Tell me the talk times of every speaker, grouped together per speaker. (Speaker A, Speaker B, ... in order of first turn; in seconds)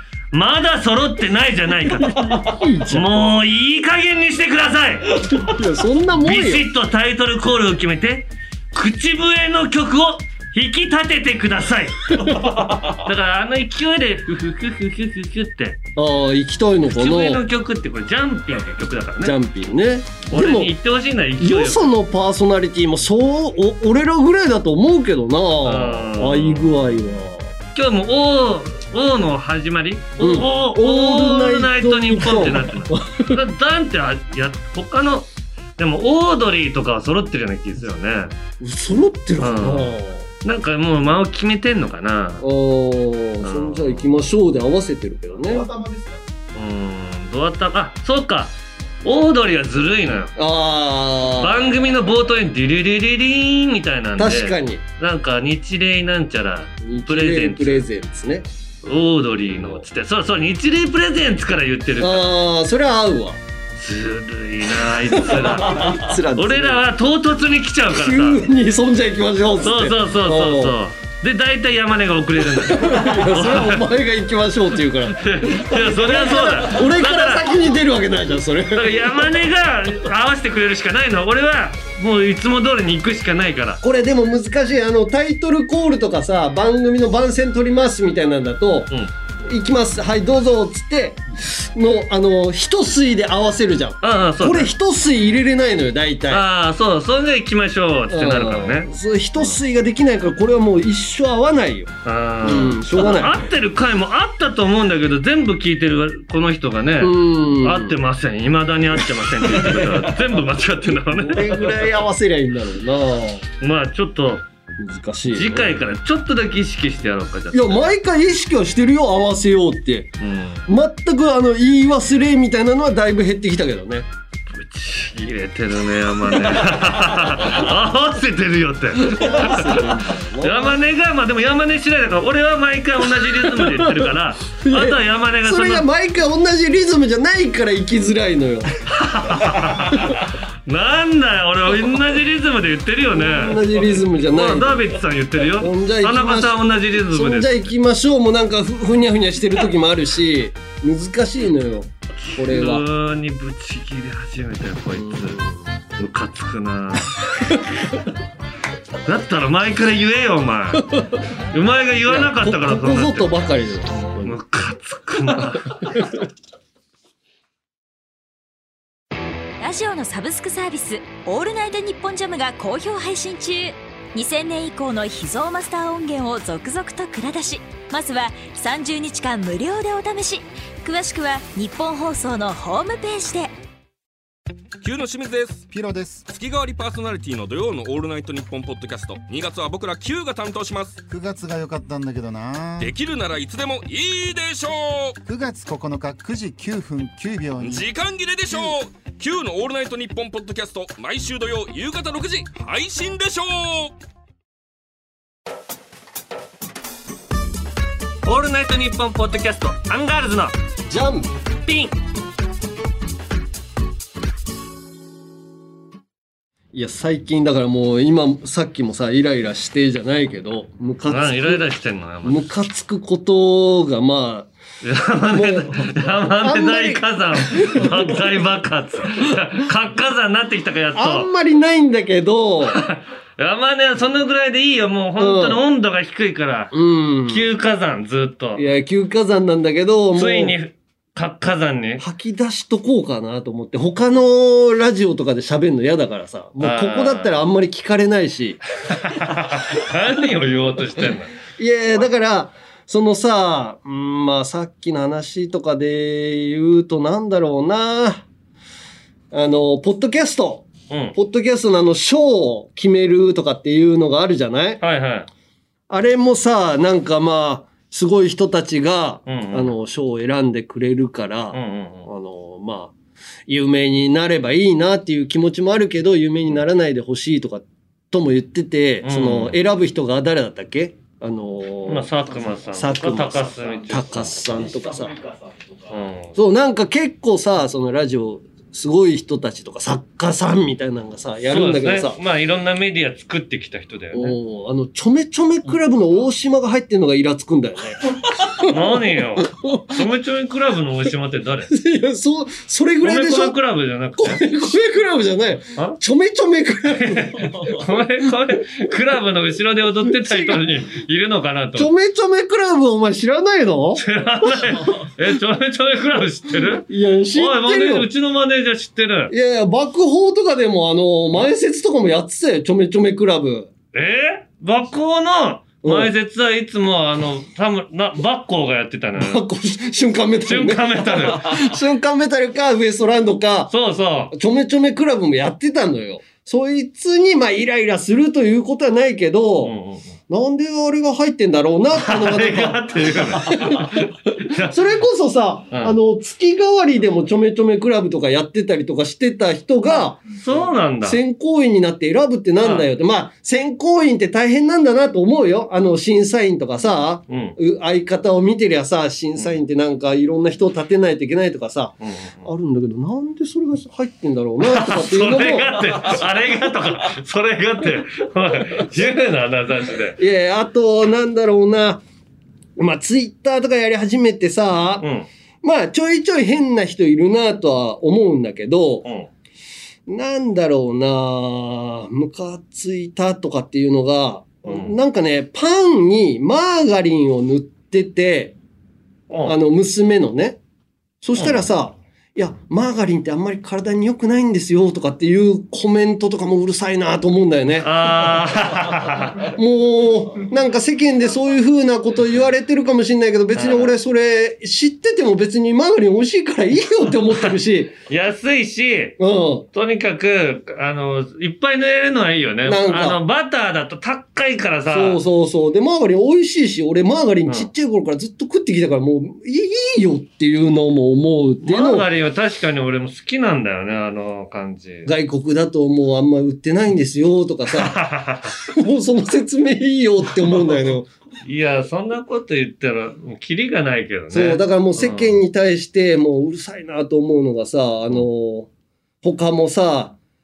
Speaker A: 0.3-5.5, 6.2-15.8, 16.9-19.4, 20.3-21.9, 25.6-26.8, 27.8-38.3, 39.4-42.5, 43.4-44.0, 46.5-50.3, 51.4-57.9, 58.8-62.3, 63.8-68.4, 69.6-73.9, 75.1-77.5, 78.8-83.8, 94.0-94.7, 96.3-98.9, 102.0-111.9, 113.6-114.4, 115.3-117.9, 120.2-120.7, 124.5-135.9, 138.9-147.7, 152.2-155.4, 156.0-157.6, 159.1-160.9, 161.5-163.3, 164.2-166.0, 208.2-210.5, 211.7-211.9, 221.1-222.4, 224.8-231.3, 232.7-238.6, 240.1-242.1, 246.6-247.4, 248.9-251.3, 260.9-261.2, 264.8-265.3, 269.3-269.7, 271.5-272.1, 279.0-279.6, 281.9-284.4, 285.9-286.4, 291.5-294.4, 298.6-301.7, 303.0-304.4, 306.9-311.9, 314.0-319.3, 323.9-329.4, 330.4-331.7, 333.7-334.3, 339.6-340.1, 341.9-344.8, 350.4-351.2, 352.6-352.9, 357.3-357.6, 362.0-362.5, 364.6-370.2, 375.0-375.3, 379.0-379.3, 384.7-384.9, 389.3-389.6, 391.4-391.6, 397.8-399.5, 403.6-403.9, 408.1-409.2, 409.7-415.2, 421.6-425.1, 427.7-428.5, 431.4-435.4
Speaker B: 1.9-3.3, 5.3-6.7, 12.1-12.9, 16.0-17.4, 19.2-20.7, 21.4-27.5, 30.2-33.4, 38.6-40.3, 42.4-45.7, 50.4-51.7, 54.2-54.8, 56.8-58.5, 59.5-59.8, 62.0-63.4, 65.0-66.8, 67.9-70.8, 72.5-79.4, 83.8-88.9, 89.5-96.5, 98.1-103.5, 107.0-108.0, 109.4-110.1, 111.1-113.5, 114.8-115.7, 117.5-124.1, 126.3-127.5, 128.9-130.8, 133.2-138.7, 139.5-140.2, 143.1-144.9, 145.6-152.9, 154.9-155.6, 162.1-164.4, 165.8-166.1, 210.9-211.3, 216.7-221.7, 222.2-224.5, 225.3-228.3, 230.9-232.8, 235.2-235.6, 236.7-237.4, 238.6-240.6, 242.0-248.6, 251.6-258.3, 259.3-264.8, 265.9-272.9, 273.5-282.1, 282.7-285.2, 286.4-292.2, 294.1-300.0, 301.7-303.6, 304.2-307.8, 310.1-310.7, 311.8-314.0, 314.6-314.9, 316.6-318.1, 319.3-323.7, 325.8-326.1, 329.2-333.7, 334.3-339.8, 340.3-366.2, 370.2-372.0, 372.8-375.1, 375.6-379.1, 380.1-388.6, 389.4-390.6, 391.2-397.9, 399.4-407.9, 409.2-409.7, 412.6-413.2, 414.9-422.1, 425.1-431.1, 434.3-438.7, 439.2-440.2
Speaker C: 169.6-183.5
Speaker D: 184.8-185.7, 186.3-191.0, 192.8-195.2, 197.6-204.0
Speaker E: 185.7-186.3, 191.1-192.9, 195.2-197.9